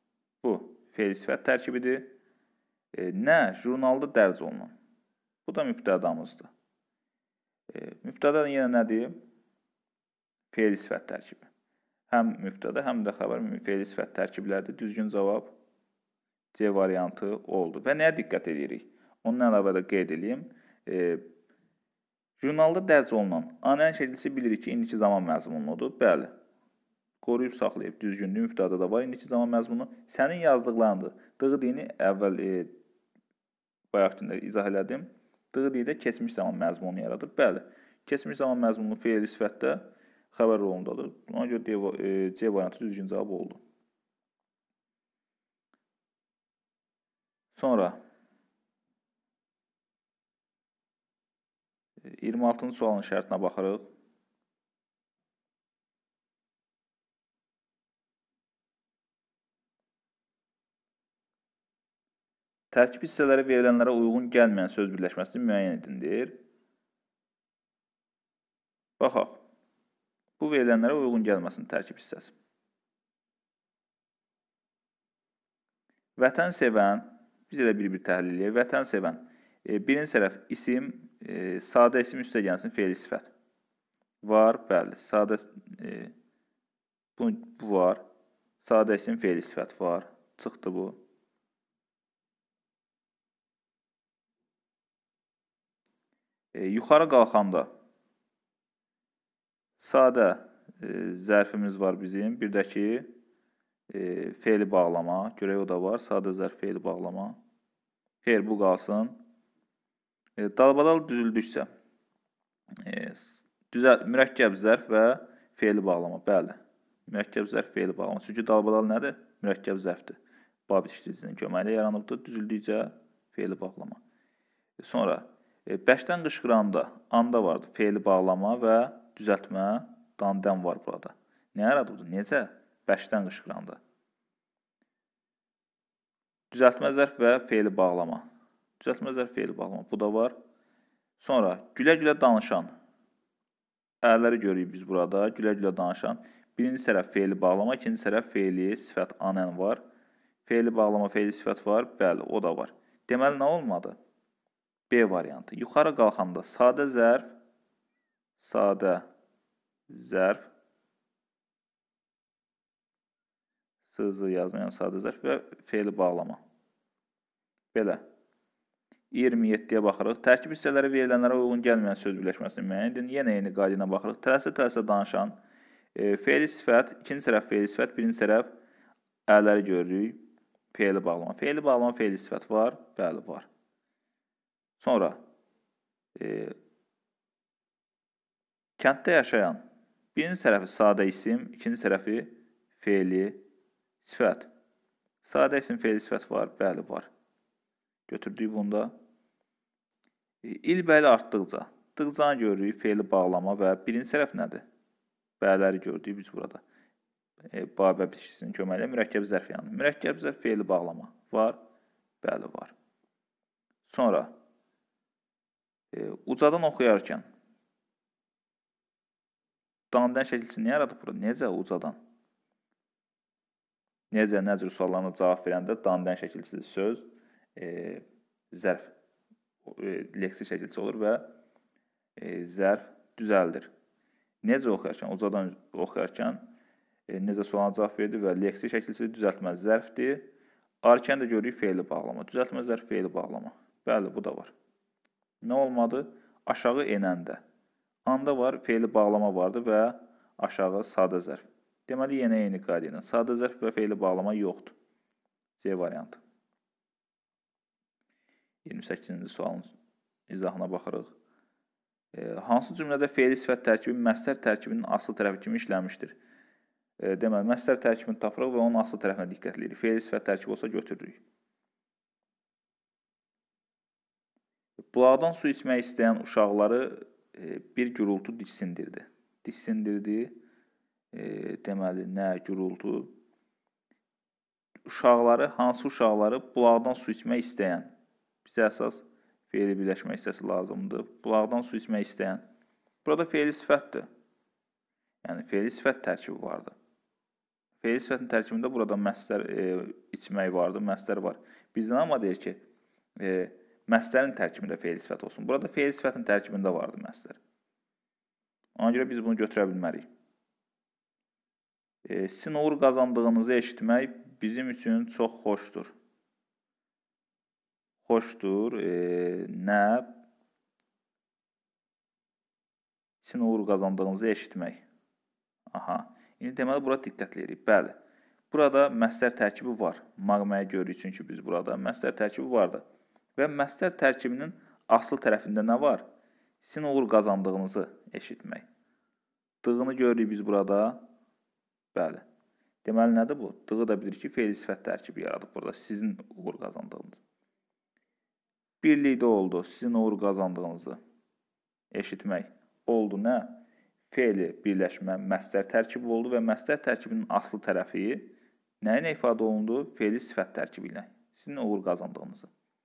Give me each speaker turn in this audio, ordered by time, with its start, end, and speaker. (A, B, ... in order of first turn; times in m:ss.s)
0:00.4-0:02.1 A
0:02.9-0:04.7 A
0:05.5-0:06.5 A
0:07.7-0:09.2 A
0:10.5-0:11.5 A
0:12.1-0:15.6 A
0:16.5-0:21.2 A
0:22.4-0:26.3 A
0:27.2-0:32.7 A
0:33.9-0:43.6 A
0:47.6-0:48.0 A
0:52.0-0:53.9 A
1:02.7-1:06.4 A
1:09.0-1:09.4 A
1:10.4-1:12.3 A
1:16.2-1:23.3 A
1:24.2-1:26.1 A
1:27.2-1:28.0 A
1:28.6-1:31.0 A
1:36.5-1:37.7 A
1:39.8-1:43.1 A
1:43.9-1:47.4 A
1:48.2-1:49.2 A
1:50.4-1:51.7 A
1:52.8-2:04.0 A
2:04.8-2:13.8 A
2:16.5-2:18.3 A
2:18.8-2:20.4 A
2:21.2-2:22.7 A
2:24.0-2:29.8 A
2:30.4-2:34.0 A
2:34.9-2:37.4 A
2:38.4-2:39.1 A
2:39.9-2:40.5 A
2:43.9-2:46.4 A
2:47.7-2:48.0 A
2:49.1-2:55.4 A
2:56.0-2:58.5 A
2:59.3-3:00.2 A
3:00.7-3:03.5 A
3:04.8-3:05.2 A
3:06.2-3:06.6 A
3:08.8-3:09.6 A
3:10.2-3:13.4 A
3:14.0-3:14.5 A
3:15.2-3:17.1 A
3:18.1-3:19.0 A
3:20.4-3:24.6 A
3:25.4-3:26.6 A
3:27.5-3:31.6 A
3:32.2-3:32.7 A
3:33.9-3:34.4 A
3:35.9-3:37.2 A
3:39.9-3:42.0 A
3:44.1-3:48.9 A
3:49.6-3:51.3 A
3:52.2-3:53.7 A
3:54.4-3:56.5 A
3:57.1-4:00.3 A
4:00.8-4:04.5 A
4:05.4-4:07.4 A
4:08.1-4:14.8 A
4:15.6-4:16.2 A
4:18.6-4:19.7 A
4:20.3-4:21.1 A
4:22.1-4:26.2 A
4:27.0-4:31.2 A
4:34.9-4:40.3 A
4:41.1-4:43.2 A
4:44.9-4:47.9 A
4:48.4-4:52.4 A
4:53.0-4:54.1 A
4:55.2-4:56.7 A
4:57.8-5:02.6 A
5:03.2-5:07.4 A
5:08.8-5:10.1 A
5:12.0-5:15.9 A
5:18.0-5:20.2 A
5:23.2-5:24.8 A
5:25.7-5:28.0 A
5:28.5-5:32.8 A
5:33.4-5:36.1 A
5:36.6-5:38.7 A
5:39.6-5:41.0 A
5:41.9-5:42.2 A
5:42.8-5:47.2 A
5:48.8-5:51.0 A
5:51.9-6:02.5 A